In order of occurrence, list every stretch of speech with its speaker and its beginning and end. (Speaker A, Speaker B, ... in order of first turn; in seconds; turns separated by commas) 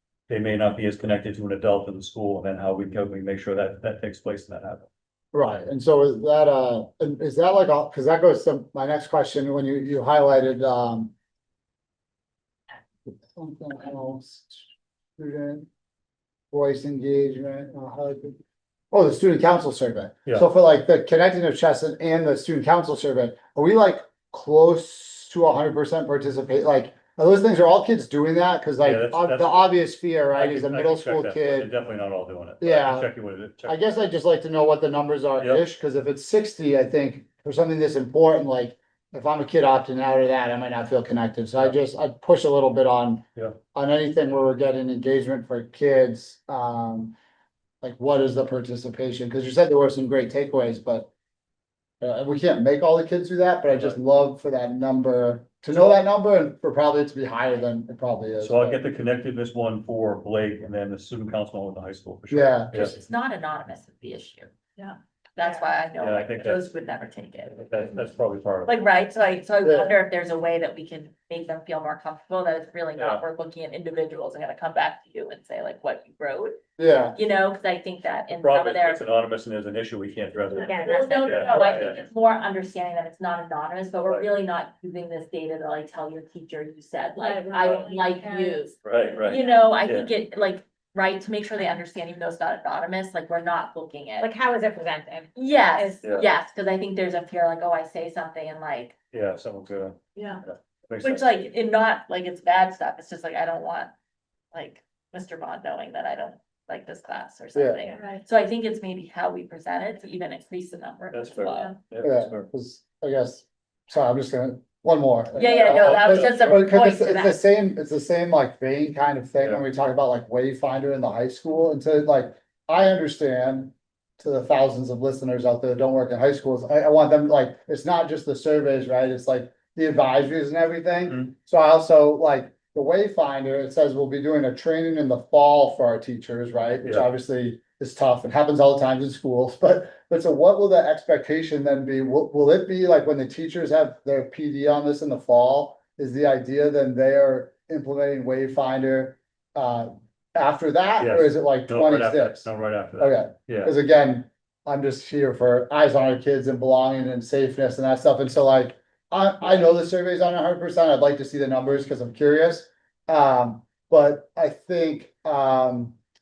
Speaker A: 0.3-4.9, Speaker B: 5.3-11.1, Speaker B: 13.3-14.6, Speaker B: 15.2-15.7, Speaker B: 16.5-18.4, Speaker B: 18.9-31.7, Speaker A: 28.8-29.7, Speaker A: 30.3-33.8, Speaker B: 32.6-33.1, Speaker B: 33.6-47.1, Speaker A: 35.4-35.6, Speaker B: 47.8-51.1, Speaker B: 52.0-58.8, Speaker A: 53.7-54.0, Speaker A: 58.4-62.9, Speaker B: 62.3-62.9, Speaker C: 62.7-64.5, Speaker D: 64.8-65.7, Speaker C: 65.3-67.8, Speaker A: 66.0-66.6, Speaker A: 67.5-68.7, Speaker C: 68.7-76.6, Speaker B: 69.6-69.9, Speaker A: 73.0-73.2, Speaker B: 76.8-77.2, Speaker C: 77.1-79.0, Speaker A: 78.4-82.0, Speaker D: 80.5-81.9, Speaker C: 80.5-94.3, Speaker D: 87.2-88.6, Speaker A: 88.8-90.1, Speaker D: 94.2-96.0, Speaker C: 95.3-99.0, Speaker A: 99.1-101.3, Speaker C: 101.0-103.9, Speaker C: 104.5-111.8, Speaker B: 107.5-107.8, Speaker D: 107.8-108.2, Speaker A: 111.1-112.5, Speaker B: 112.0-166.0, Speaker C: 115.3-117.4, Speaker A: 115.7-116.5, Speaker A: 131.1-131.3, Speaker A: 151.0-153.7